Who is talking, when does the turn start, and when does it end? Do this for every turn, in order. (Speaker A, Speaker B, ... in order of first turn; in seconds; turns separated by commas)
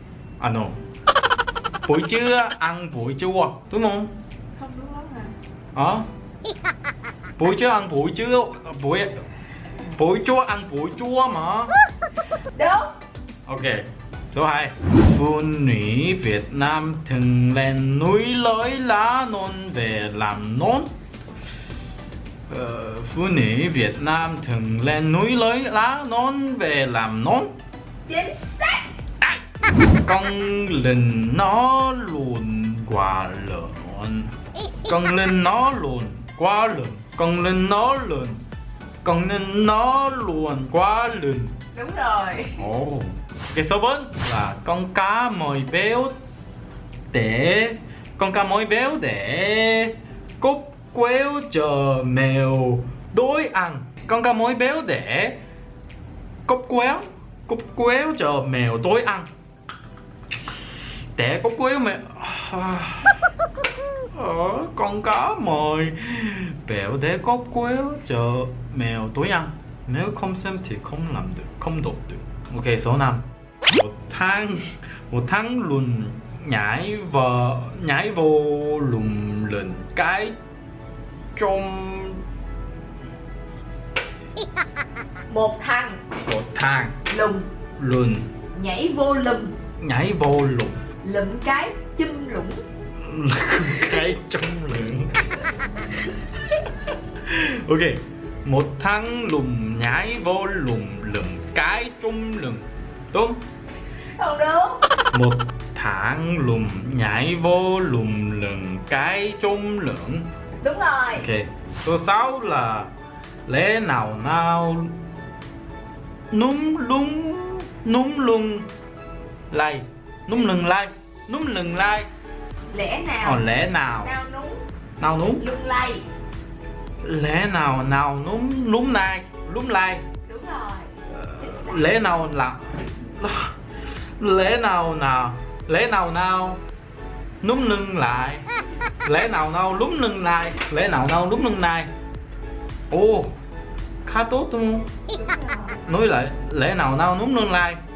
Speaker A: 0.4-0.8, Speaker A: 1.8-4.1, Speaker B: 4.6-5.3, Speaker A: 5.7-6.1, Speaker A: 7.4-9.2, Speaker A: 9.9-11.7, Speaker B: 12.5-12.9, Speaker A: 13.4-20.9, Speaker A: 22.5-27.5, Speaker B: 28.1-28.8, Speaker A: 30.0-34.3, Speaker A: 34.8-38.4, Speaker A: 39.0-41.5, Speaker B: 41.7-42.7, Speaker A: 42.6-46.2, Speaker A: 47.1-55.4, Speaker A: 56.5-59.3, Speaker A: 61.1-63.2, Speaker A: 64.1-80.3, Speaker A: 81.3-82.2, Speaker B: 85.3-86.0, Speaker A: 86.2-87.0, Speaker B: 87.1-87.5, Speaker A: 87.8-88.3, Speaker B: 88.5-89.5, Speaker A: 89.8-90.8, Speaker B: 91.0-92.6, Speaker A: 93.0-95.3, Speaker A: 97.2-103.4, Speaker B: 104.2-104.8, Speaker A: 105.1-110.3, Speaker B: 110.6-111.3, Speaker A: 111.1-112.9, Speaker A: 113.5-114.9, Speaker A: 116.3-118.7, Speaker A: 119.5-122.1, Speaker B: 122.7-123.4, Speaker A: 123.2-124.1, Speaker B: 124.0-124.6, Speaker A: 125.0-125.4, Speaker B: 125.4-126.0, Speaker A: 127.0-130.0, Speaker B: 130.2-131.7, Speaker A: 131.1-133.5, Speaker A: 134.2-136.6, Speaker A: 137.4-138.5, Speaker A: 139.0-141.9, Speaker A: 142.9-143.3, Speaker A: 144.0-144.9, Speaker B: 145.1-145.8, Speaker A: 145.8-147.8